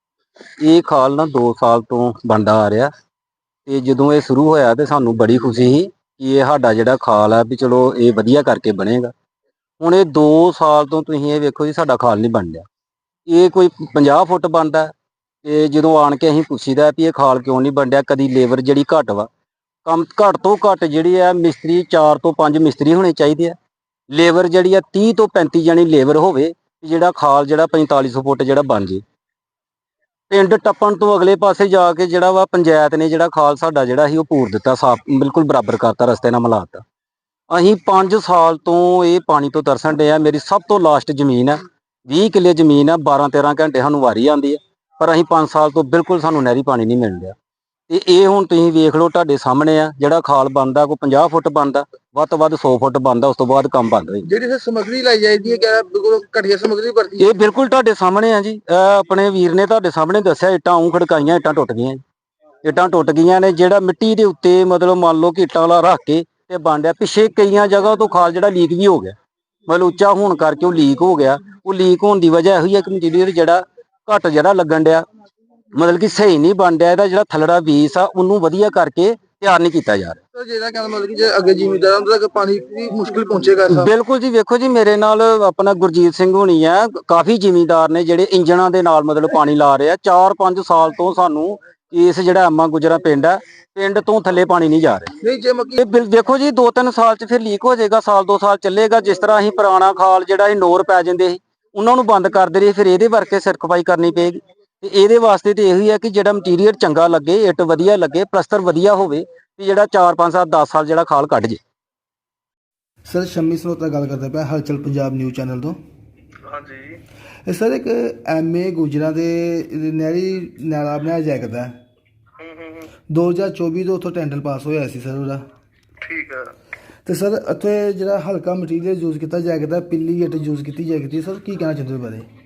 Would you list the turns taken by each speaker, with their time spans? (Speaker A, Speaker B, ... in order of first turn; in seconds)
Speaker A: 0.6-2.9, 3.7-9.1, 9.8-12.7, 13.3-14.9, 15.4-19.3, 19.9-23.6, 24.1-29.0, 30.3-36.8, 37.5-47.4, 47.9-54.3, 57.2-62.0, 62.6-69.2, 69.7-75.0, 75.7-80.2, 83.7-95.1, 95.8-111.6
Speaker B: 54.3-57.3, 80.3-83.9, 95.2-95.8, 116.5-116.9, 126.0-126.4
Speaker C: 113.1-115.8, 117.5-121.8, 123.1-125.4, 127.0-132.3